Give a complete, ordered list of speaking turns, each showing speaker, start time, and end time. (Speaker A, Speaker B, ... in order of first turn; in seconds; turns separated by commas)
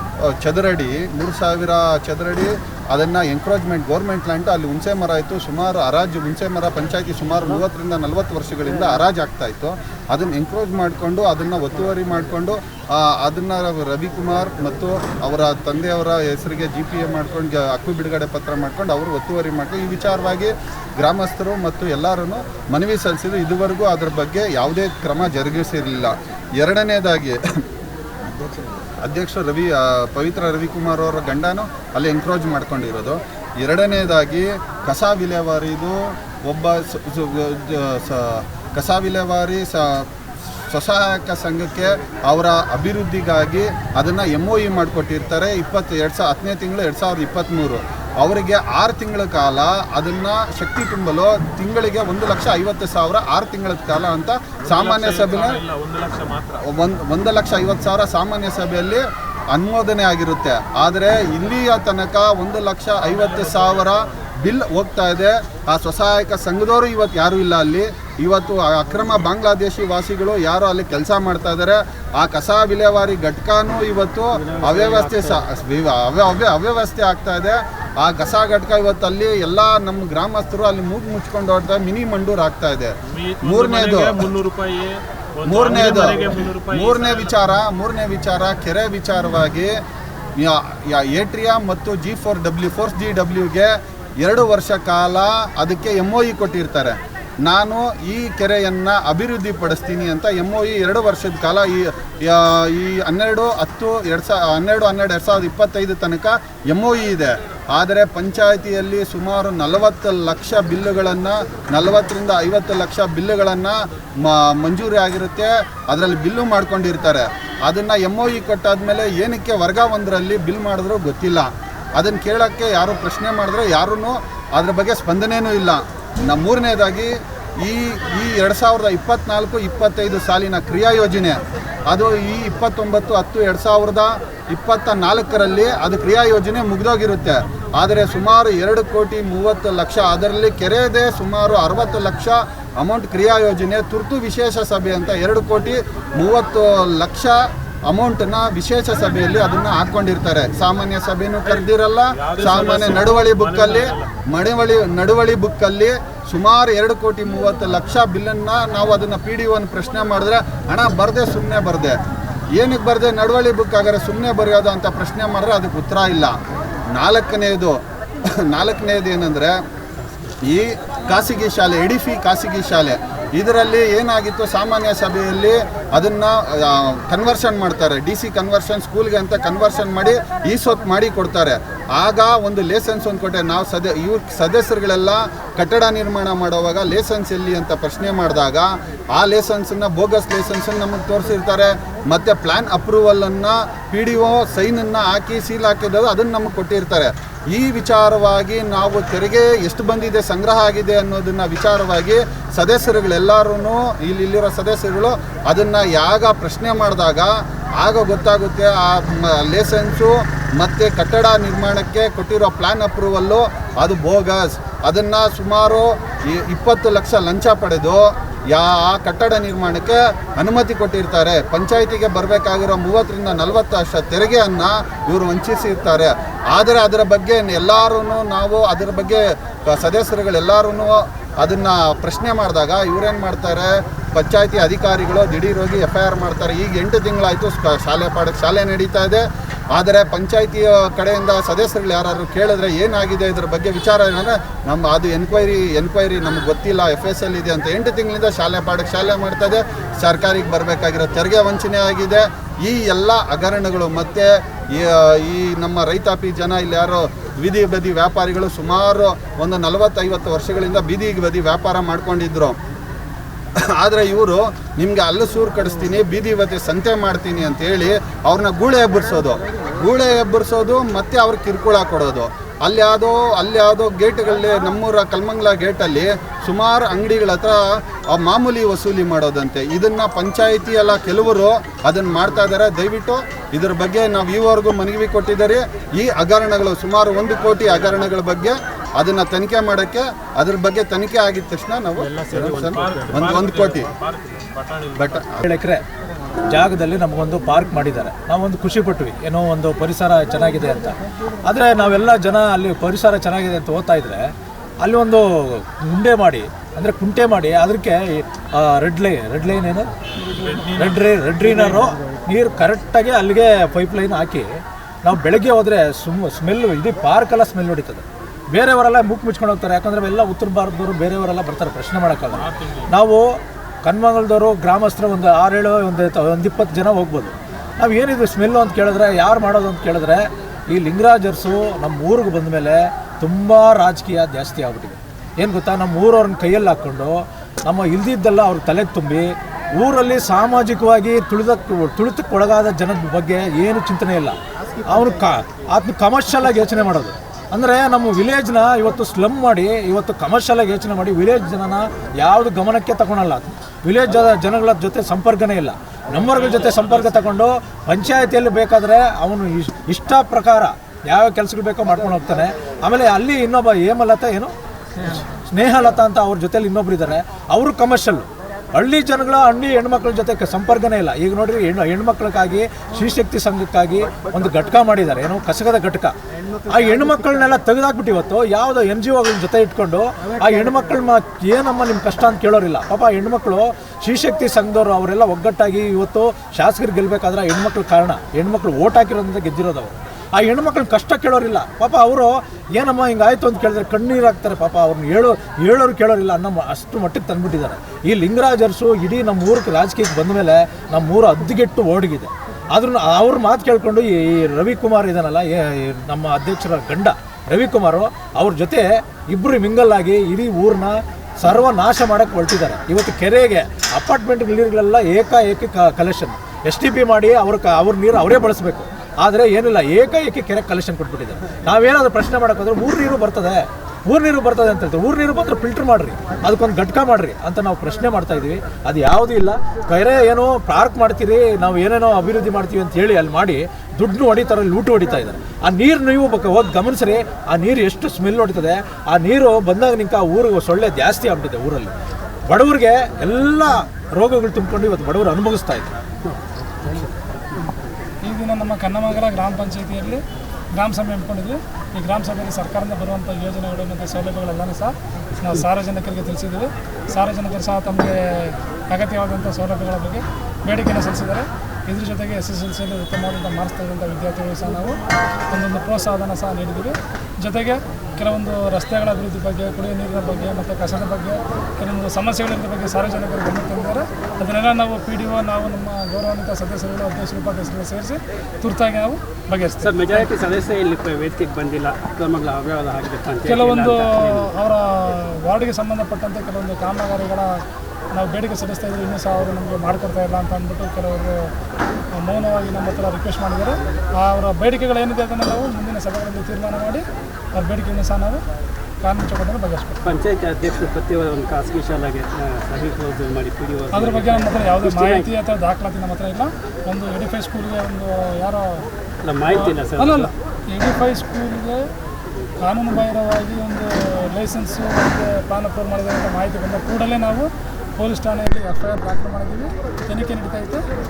Speaker A: 0.2-27.4, Speaker A: 29.0-55.6, Speaker B: 54.6-56.7, Speaker A: 56.7-84.3, Speaker B: 63.0-64.3, Speaker C: 74.3-75.4, Speaker B: 83.1-87.4, Speaker A: 85.5-89.7, Speaker A: 90.4-162.0, Speaker B: 151.4-154.2, Speaker A: 162.5-166.4, Speaker A: 166.9-167.8, Speaker A: 168.4-169.6, Speaker C: 170.0-170.4, Speaker A: 170.4-262.6, Speaker A: 263.7-293.9, Speaker C: 292.0-293.3, Speaker B: 292.6-295.4, Speaker A: 295.0-295.4, Speaker D: 295.4-295.8, Speaker D: 296.5-309.9, Speaker B: 310.3-311.8, Speaker D: 310.7-441.9, Speaker B: 322.3-322.9, Speaker B: 356.2-357.3, Speaker D: 442.5-445.9, Speaker C: 446.2-447.9, Speaker E: 448.2-480.3, Speaker C: 479.8-484.5, Speaker E: 483.5-487.6, Speaker E: 488.1-491.5, Speaker E: 492.2-497.0, Speaker E: 497.5-498.4, Speaker E: 499.0-500.0, Speaker C: 500.0-505.3, Speaker E: 503.9-508.9, Speaker C: 509.2-510.3, Speaker E: 509.5-511.8, Speaker E: 512.6-520.8